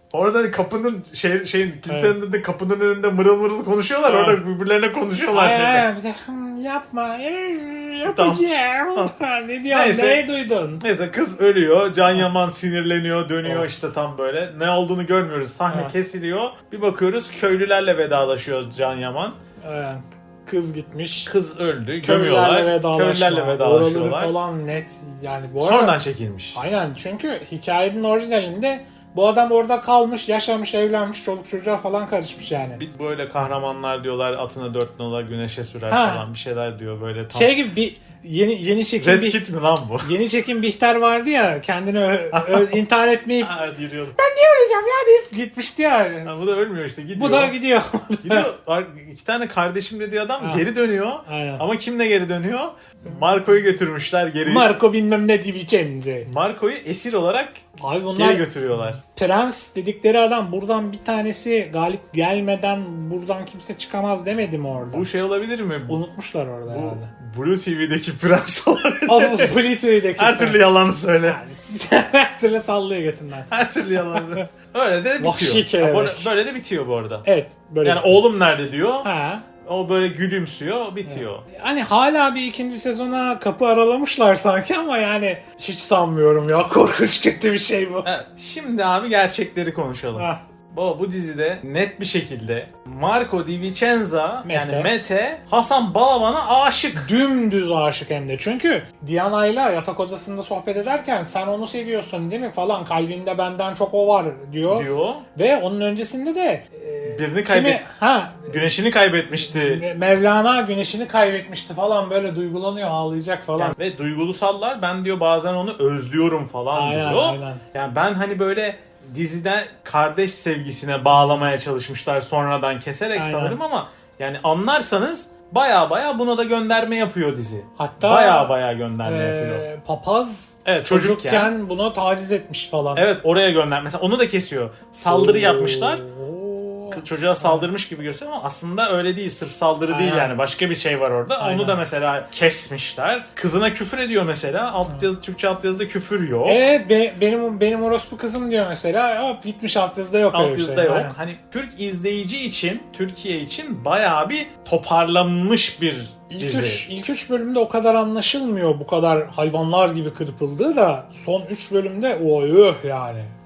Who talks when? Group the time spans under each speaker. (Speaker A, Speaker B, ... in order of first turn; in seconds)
Speaker A: 0.1-5.8, 8.1-9.1, 9.7-10.2, 10.8-19.4, 21.3-24.3, 25.6-26.6, 32.8-37.6, 39.0-40.1, 42.3-42.8, 43.4-44.2, 46.2-47.5, 48.2-54.7, 56.3-59.0, 64.9-66.0, 66.7-69.6, 70.2-71.4, 73.5-77.3, 77.8-79.1, 79.6-81.5, 88.0-97.1, 104.7-105.2, 107.0-107.8, 108.5-109.8, 113.6-129.7, 130.7-131.5, 132.9-136.0, 136.9-146.6, 150.3-156.9
Speaker B: 1.9-2.2, 4.1-4.4, 5.3-10.8, 13.4-13.7, 15.7-15.9, 19.6-21.3, 22.0-26.0, 26.5-32.8, 35.9-36.2, 37.3-39.4, 40.0-43.6, 44.2-46.5, 47.1-48.5, 50.4-50.6, 51.3-51.6, 54.5-56.3, 57.8-65.1, 65.9-67.1, 69.1-70.6, 71.2-73.5, 74.0-74.4, 75.2-76.3, 77.2-78.2, 79.0-79.5, 81.0-88.1, 90.2-90.4, 94.5-94.9, 97.0-108.6, 109.5-113.8, 116.7-117.6, 123.2-123.6, 127.8-133.1, 135.1-137.7, 139.9-140.3, 141.4-141.8, 146.5-151.2, 156.3-163.3